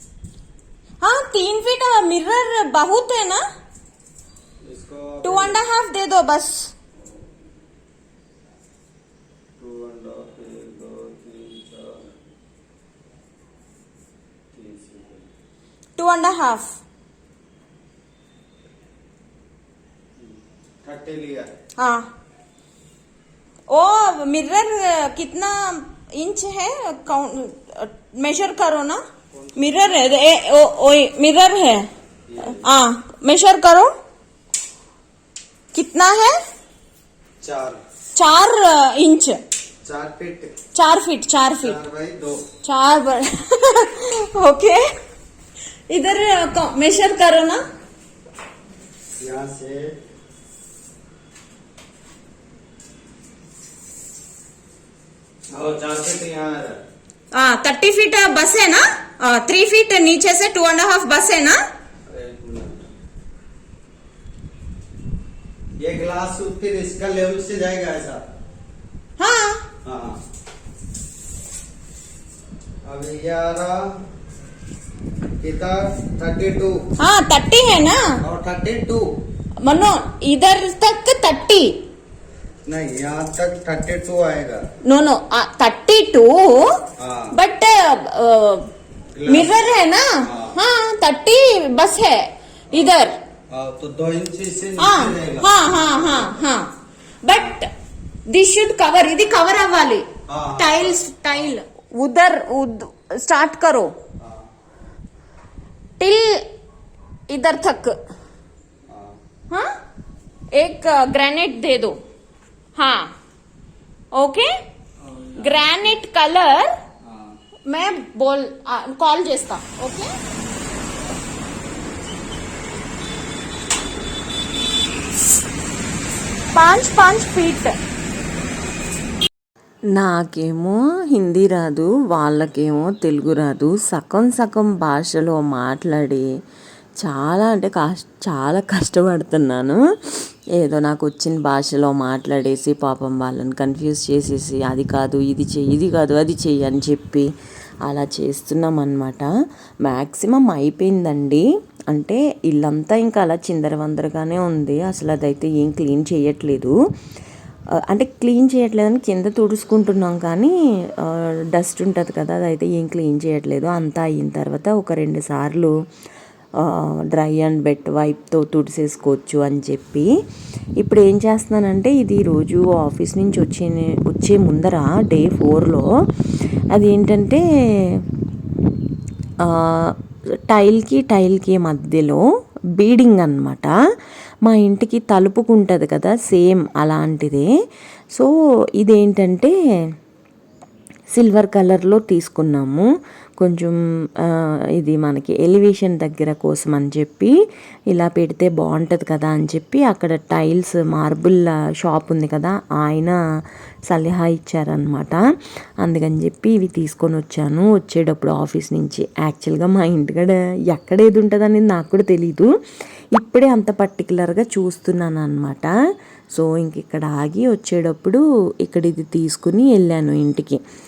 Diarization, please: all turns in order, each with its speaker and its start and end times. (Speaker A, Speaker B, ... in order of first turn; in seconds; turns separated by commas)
Speaker A: 1.0-3.4, Speaker B: 4.6-5.6, Speaker A: 5.2-6.7, Speaker B: 9.6-12.0, Speaker B: 14.5-15.2, Speaker A: 16.0-16.7, Speaker B: 20.2-21.5, Speaker A: 21.8-22.1, Speaker A: 23.7-29.0, Speaker B: 29.4-29.8, Speaker A: 29.6-31.9, Speaker B: 32.3-32.7, Speaker A: 32.5-33.9, Speaker A: 35.7-36.4, Speaker B: 37.4-37.8, Speaker A: 38.1-39.4, Speaker B: 39.9-40.5, Speaker A: 40.7-41.8, Speaker B: 41.6-42.5, Speaker A: 42.6-44.8, Speaker A: 45.9-47.6, Speaker B: 49.2-49.9, Speaker B: 55.5-56.8, Speaker A: 57.3-61.6, Speaker B: 62.1-62.8, Speaker B: 65.8-68.2, Speaker A: 69.2-69.6, Speaker B: 69.8-70.2, Speaker B: 72.8-73.8, Speaker B: 75.4-76.8, Speaker A: 77.0-78.0, Speaker B: 78.2-79.0, Speaker A: 79.6-81.7, Speaker B: 82.7-84.6, Speaker A: 84.8-86.8, Speaker B: 87.0-87.3, Speaker A: 87.3-88.7, Speaker B: 89.2-89.5, Speaker A: 89.3-93.1, Speaker B: 90.3-90.5, Speaker B: 93.5-96.4, Speaker A: 94.8-96.7, Speaker A: 97.2-97.7, Speaker A: 98.3-103.9, Speaker B: 100.3-101.5, Speaker A: 106.0-106.4, Speaker A: 107.3-108.0, Speaker B: 108.9-109.2, Speaker A: 110.5-112.0, Speaker A: 112.8-113.1, Speaker A: 114.1-114.5, Speaker A: 115.4-116.7, Speaker B: 117.0-117.3, Speaker A: 117.7-120.1, Speaker A: 126.5-127.8, Speaker C: 129.9-136.2, Speaker C: 137.0-147.3, Speaker C: 147.9-149.3, Speaker C: 149.8-156.7, Speaker C: 157.9-165.7, Speaker C: 166.6-170.1, Speaker C: 170.8-175.9, Speaker C: 176.7-178.1, Speaker C: 179.4-180.0, Speaker C: 180.5-182.2, Speaker C: 182.8-183.7, Speaker C: 184.4-187.5, Speaker C: 188.2-189.5, Speaker C: 191.1-192.9, Speaker C: 193.4-197.3, Speaker C: 197.9-203.2, Speaker C: 203.9-205.2, Speaker C: 205.8-212.5, Speaker C: 213.2-215.7, Speaker C: 216.3-220.6